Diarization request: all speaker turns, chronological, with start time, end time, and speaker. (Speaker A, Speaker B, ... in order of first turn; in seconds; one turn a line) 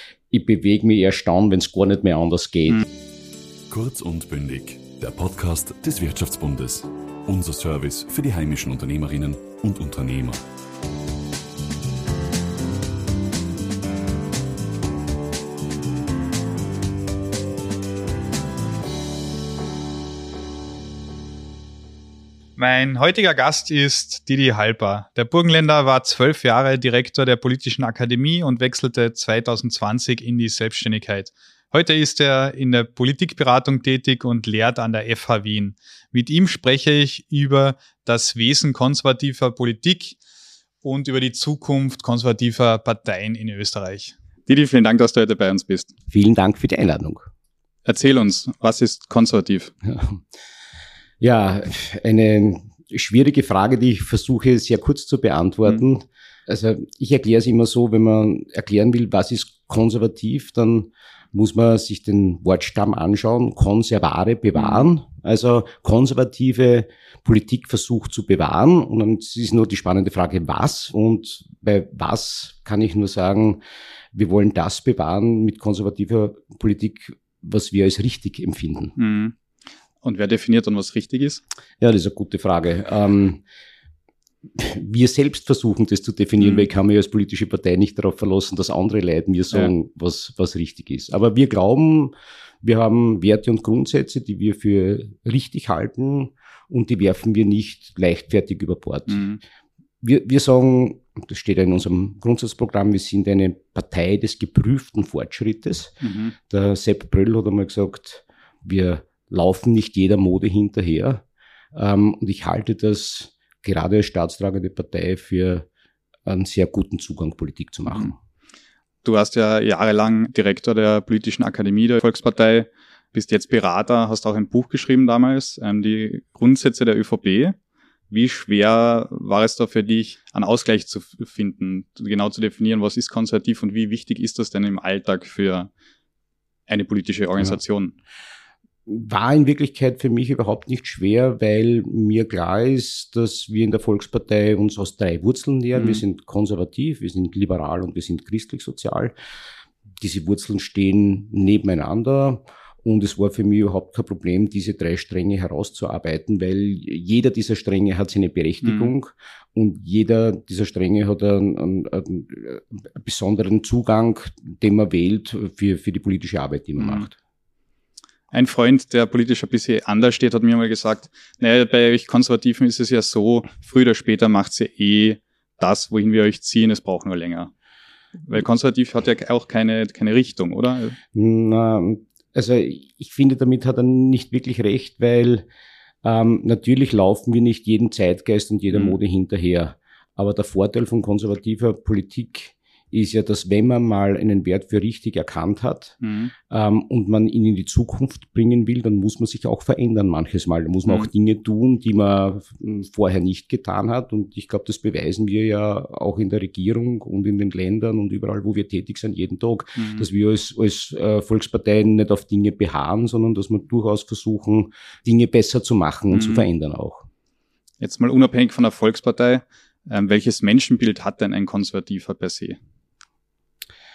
Speaker A: 0.3-2.8
Speaker B: 3.7-10.4
Speaker C: 22.6-40.1
Speaker C: 40.8-45.9
Speaker A: 46.1-47.3
Speaker C: 47.9-49.7
Speaker A: 49.8-50.2
Speaker A: 51.2-73.6
Speaker C: 64.5-64.9
Speaker A: 74.1-78.9
Speaker C: 79.0-79.3
Speaker C: 80.0-81.4
Speaker A: 81.8-83.4
Speaker A: 84.5-99.3
Speaker C: 86.4-86.7
Speaker C: 99.1-99.4
Speaker A: 100.0-115.7
Speaker C: 106.0-106.3
Speaker A: 116.2-118.2
Speaker C: 119.0-127.5
Speaker C: 128.1-135.7
Speaker C: 136.7-137.9
Speaker A: 138.9-149.1
Speaker C: 145.7-146.0
Speaker A: 150.0-167.2
Speaker C: 158.6-158.9
Speaker C: 166.8-167.1
Speaker C: 168.3-177.5
Speaker C: 178.2-181.0
Speaker A: 181.1-185.4
Speaker A: 186.0-196.0
Speaker C: 188.7-189.0
Speaker C: 196.0-196.3
Speaker A: 196.5-217.1
Speaker C: 209.8-210.1
Speaker C: 216.1-216.5
Speaker C: 217.8-222.6